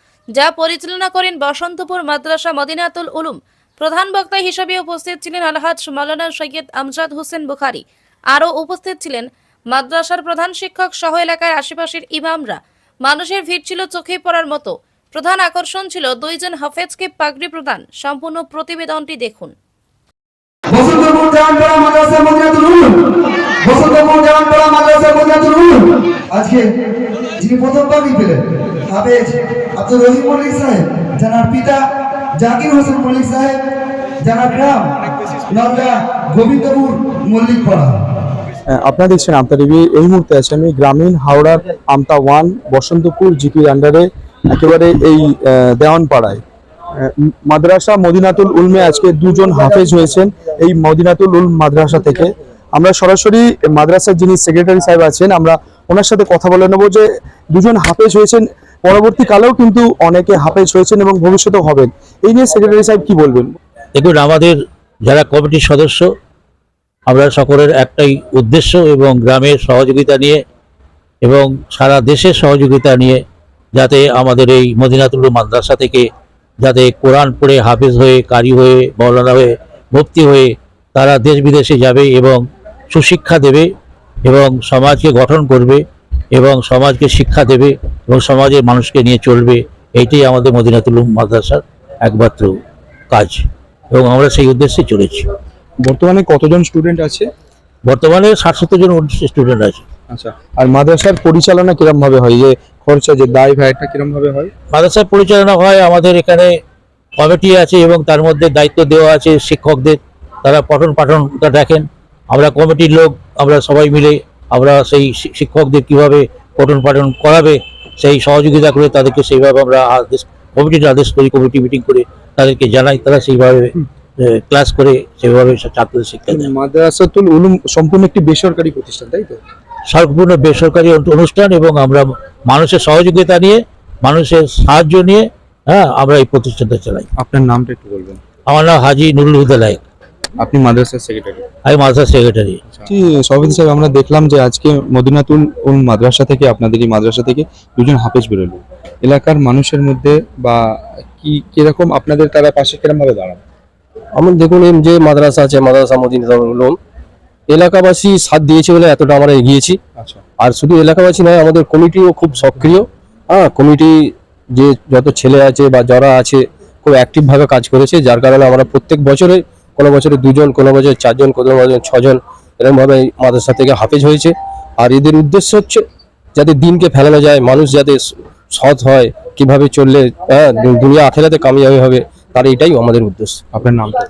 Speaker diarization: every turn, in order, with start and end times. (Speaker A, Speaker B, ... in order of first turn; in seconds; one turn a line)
Speaker A: 0.3-19.5
Speaker B: 20.7-23.0
Speaker B: 23.6-26.6
Speaker B: 27.4-31.8
Speaker B: 32.4-33.6
Speaker B: 34.2-35.0
Speaker B: 35.5-38.0
Speaker C: 38.7-46.4
Speaker C: 47.0-63.5
Speaker D: 63.9-66.1
Speaker D: 67.1-70.4
Speaker D: 71.2-73.2
Speaker D: 73.7-76.1
Speaker D: 76.6-83.7
Speaker D: 84.2-85.8
Speaker D: 86.3-92.5
Speaker D: 93.1-95.2
Speaker C: 95.8-97.3
Speaker D: 97.8-99.8
Speaker C: 100.1-104.5
Speaker D: 104.7-106.5
Speaker D: 107.2-126.5
Speaker C: 126.3-129.4
Speaker D: 129.9-137.1
Speaker C: 137.2-138.2
Speaker D: 138.5-139.8
Speaker C: 140.4-141.4
Speaker D: 141.7-142.6
Speaker C: 142.8-153.4
Speaker E: 154.2-156.7
Speaker E: 157.5-159.8
Speaker E: 160.4-163.9
Speaker E: 164.6-174.3
Speaker E: 174.8-175.8
Speaker E: 176.4-178.0
Speaker E: 178.5-183.3
Speaker C: 183.5-184.0